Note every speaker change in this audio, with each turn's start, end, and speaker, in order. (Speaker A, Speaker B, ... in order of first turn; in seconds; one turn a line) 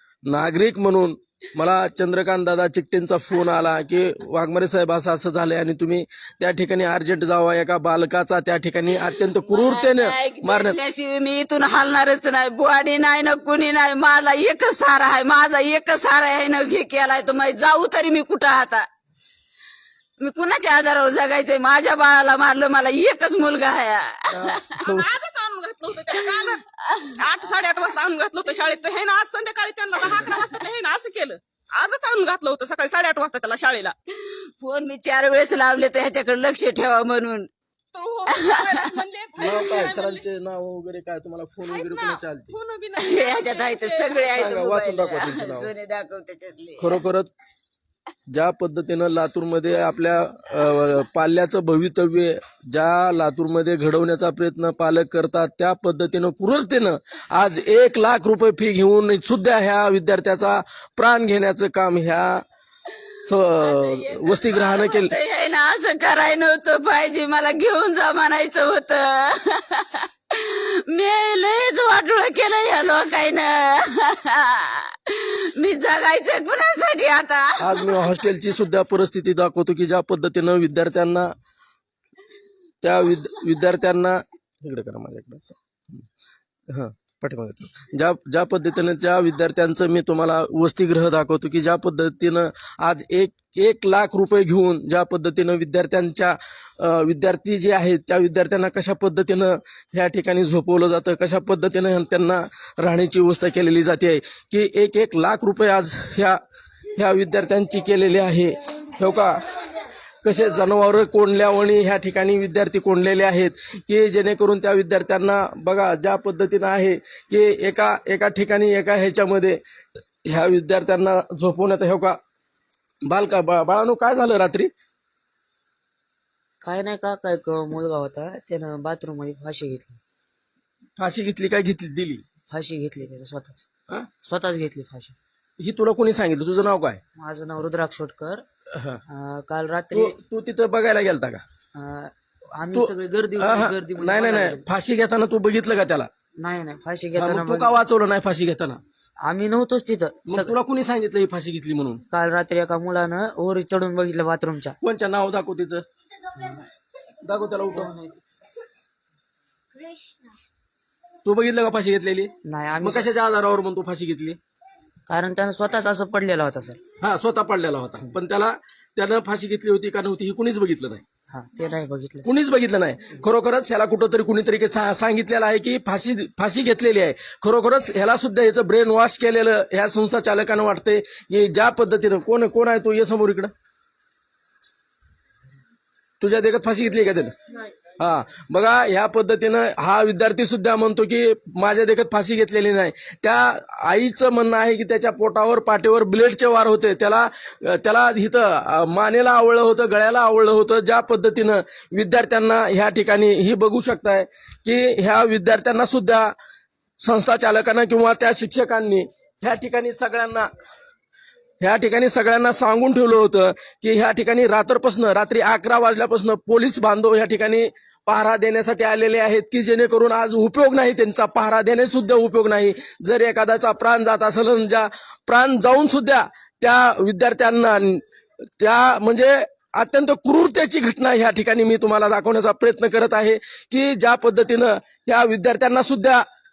Speaker A: 0.3-10.8
Speaker B: 9.4-18.9
Speaker B: 20.2-24.8
Speaker A: 24.3-25.1
Speaker C: 24.8-26.6
Speaker B: 26.1-27.2
Speaker C: 27.1-33.9
Speaker B: 34.2-37.5
Speaker C: 37.9-40.2
Speaker B: 38.3-38.9
Speaker A: 39.4-42.5
Speaker C: 41.7-44.3
Speaker B: 43.0-47.0
Speaker A: 44.3-45.7
Speaker A: 46.8-47.3
Speaker A: 48.3-62.4
Speaker A: 63.2-65.2
Speaker B: 63.6-77.9
Speaker A: 77.6-81.3
Speaker A: 82.8-86.0
Speaker A: 86.7-106.4
Speaker A: 106.9-109.7
Speaker A: 110.2-119.6
Speaker A: 120.2-122.2
Speaker A: 123.0-124.7
Speaker D: 126.6-130.0
Speaker A: 131.0-132.2
Speaker D: 132.5-133.7
Speaker D: 134.2-135.2
Speaker A: 135.6-137.0
Speaker D: 137.2-138.4
Speaker A: 138.7-139.0
Speaker D: 139.1-140.2
Speaker A: 139.9-141.4
Speaker D: 141.7-144.6
Speaker A: 142.7-146.1
Speaker D: 146.4-147.8
Speaker A: 147.2-148.8
Speaker D: 149.2-150.5
Speaker A: 150.3-152.0
Speaker D: 152.1-154.8
Speaker A: 154.8-155.8
Speaker A: 157.2-157.9
Speaker D: 157.8-158.1
Speaker A: 161.2-164.4
Speaker D: 162.5-163.1
Speaker D: 165.1-166.8
Speaker A: 167.0-171.0
Speaker D: 171.3-172.3
Speaker A: 172.2-183.5
Speaker A: 186.2-187.3
Speaker A: 188.0-206.3
Speaker A: 207.0-210.5
Speaker A: 211.6-228.0
Speaker A: 228.6-236.2